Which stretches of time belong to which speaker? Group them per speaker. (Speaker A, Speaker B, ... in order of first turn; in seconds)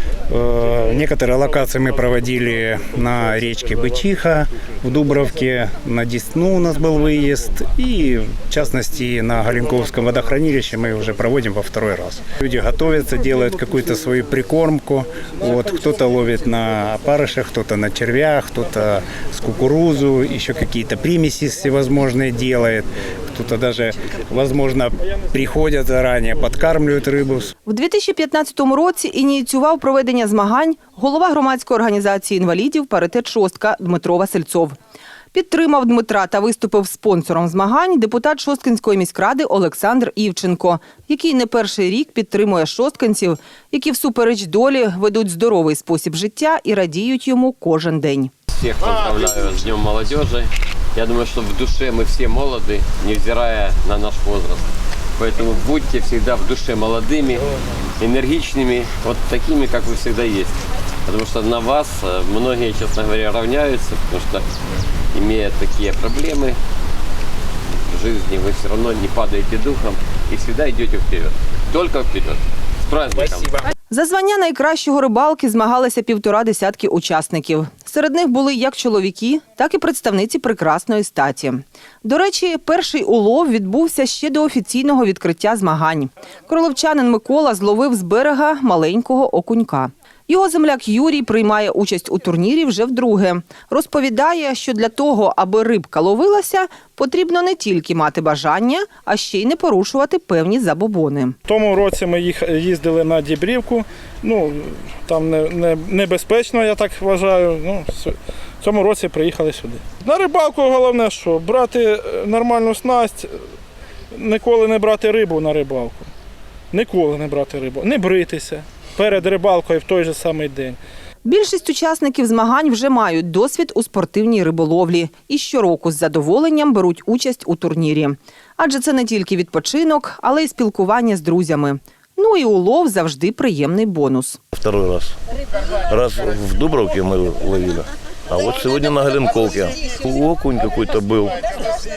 Speaker A: 0.3-27.5
Speaker B: 27.6-34.8, 35.3-48.3, 73.9-101.3, 121.2-134.4
Speaker C: 48.5-54.6, 55.2-57.4, 58.0-60.5, 61.0-64.4, 65.1-66.5, 67.9-73.6
Speaker D: 101.5-113.3, 114.1-116.1, 116.7-120.8
Speaker E: 134.5-135.1, 135.9-141.4